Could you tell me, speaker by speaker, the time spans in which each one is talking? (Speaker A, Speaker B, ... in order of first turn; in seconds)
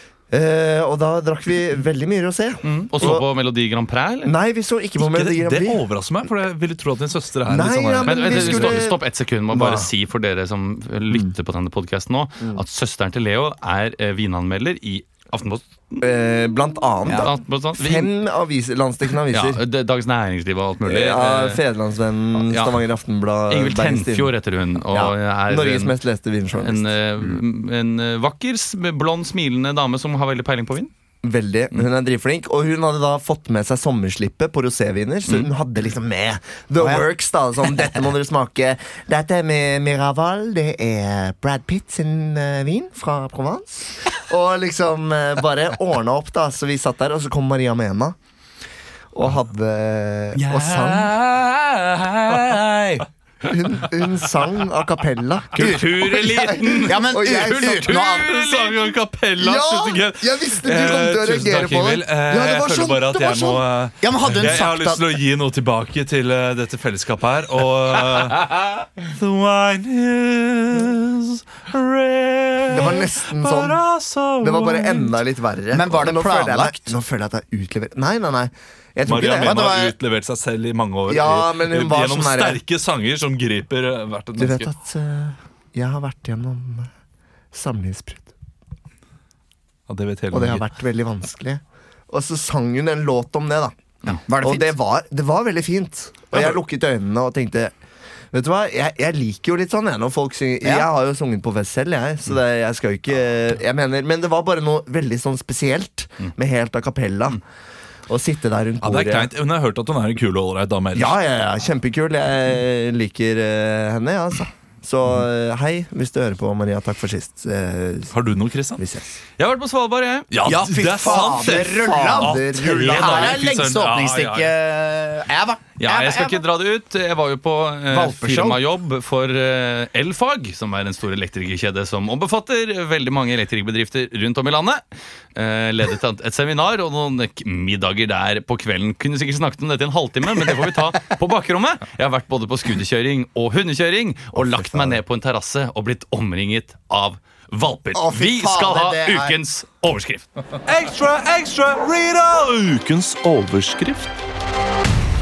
Speaker A: 0.3-3.3, 4.2-5.8, 7.5-9.9, 16.0-19.6, 20.8-26.9, 31.2-48.1, 49.1-51.1, 53.5-57.9, 59.4-63.2, 72.7-73.8, 74.4-79.7, 81.1-82.6, 84.4-86.9, 87.5-88.3, 90.3-97.7, 98.3-107.4, 108.1-109.3, 110.9-118.1, 118.8-119.1, 120.5-123.4, 144.3-145.0
Speaker B: 2.6-4.3, 8.0-16.0, 17.1-18.1, 19.3-21.6, 22.4-22.8, 23.5-26.0, 26.6-30.9, 50.4-53.0, 55.5-59.0, 119.4-120.3, 125.8-134.8, 135.3-150.3
Speaker C: 5.0-8.9, 57.9-75.2, 79.0-84.7, 89.9-90.6, 108.8-111.2, 118.1-118.8, 120.3-124.5, 150.7-154.2
Speaker D: 17.1-17.3, 36.8-37.1, 56.8-58.3, 62.8-65.0, 75.7-77.0, 79.4-79.9, 94.3-94.7, 100.6-100.9, 120.5-126.4, 127.9-128.6, 147.9-149.4